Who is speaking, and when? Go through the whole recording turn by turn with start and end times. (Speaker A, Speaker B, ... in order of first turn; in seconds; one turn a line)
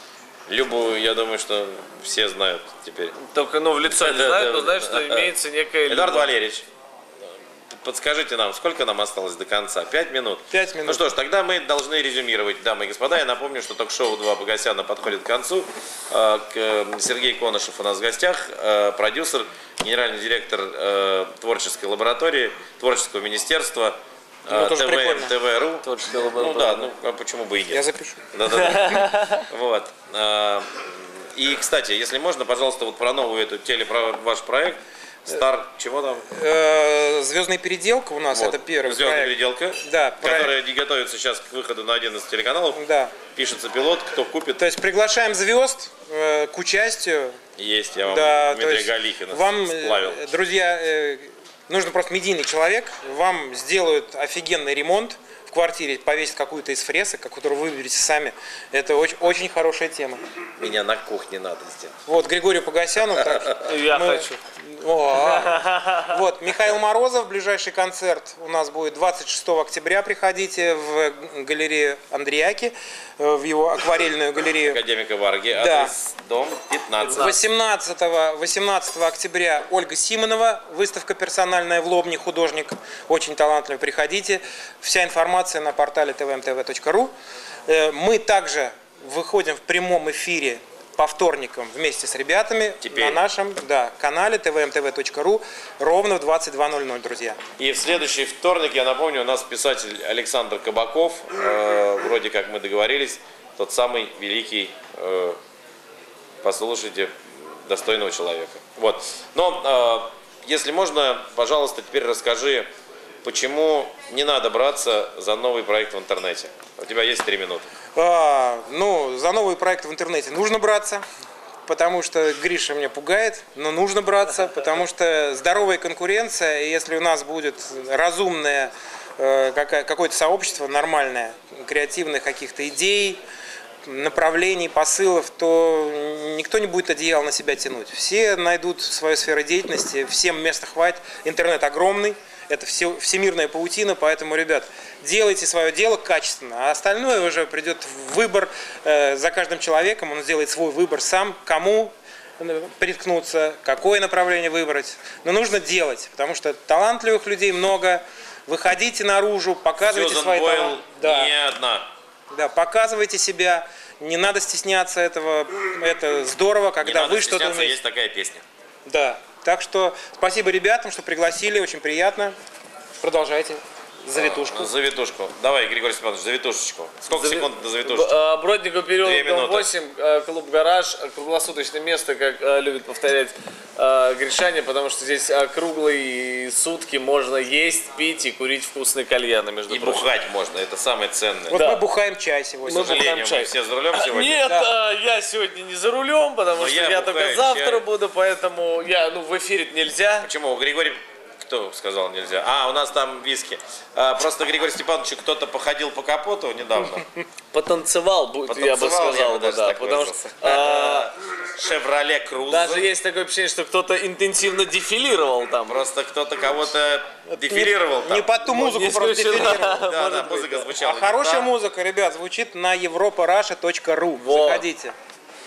Speaker A: 0.5-3.1
Speaker B: 3.2-6.3
Speaker A: 3.8-5.3
Speaker A: 5.9-6.7
Speaker A: 7.7-36.2
Speaker C: 10.5-11.1
Speaker C: 24.5-25.3
Speaker B: 25.8-26.9
Speaker C: 27.7-28.2
Speaker B: 28.5-29.5
Speaker C: 36.3-39.3
Speaker A: 38.3-42.8
Speaker C: 39.9-40.5
Speaker C: 42.7-43.1
Speaker A: 43.3-44.6
Speaker C: 44.6-47.4
Speaker A: 47.6-50.3
Speaker C: 48.1-60.2
Speaker A: 60.6-62.0
Speaker C: 62.1-74.8
Speaker B: 63.6-64.3
Speaker B: 65.2-66.2
Speaker A: 74.6-77.4
Speaker C: 75.5-75.9
Speaker B: 77.0-77.4
Speaker C: 77.2-87.1
Speaker C: 87.7-97.4
Speaker A: 92.8-93.2
Speaker A: 97.6-105.4
Speaker A: 106.4-112.7
Speaker A: 113.2-117.7
Speaker C: 118.0-121.0
Speaker C: 121.7-133.2
Speaker C: 133.8-161.3
Speaker A: 159.8-161.9
Speaker C: 162.3-167.8
Speaker A: 166.8-168.4
Speaker C: 168.9-172.4
Speaker C: 173.0-174.7
Speaker A: 174.1-178.1
Speaker B: 177.1-190.1
Speaker A: 179.0-179.7
Speaker A: 189.7-191.6
Speaker C: 191.5-193.1
Speaker B: 191.5-191.8
Speaker B: 192.7-200.3
Speaker A: 192.7-194.5
Speaker A: 196.6-197.8
Speaker A: 200.2-207.1
Speaker B: 207.5-211.1
Speaker A: 208.5-212.9
Speaker B: 212.5-215.8
Speaker A: 215.7-218.3
Speaker C: 217.4-219.9
Speaker B: 218.4-220.8
Speaker A: 219.4-221.5
Speaker C: 220.7-225.0
Speaker B: 224.2-224.7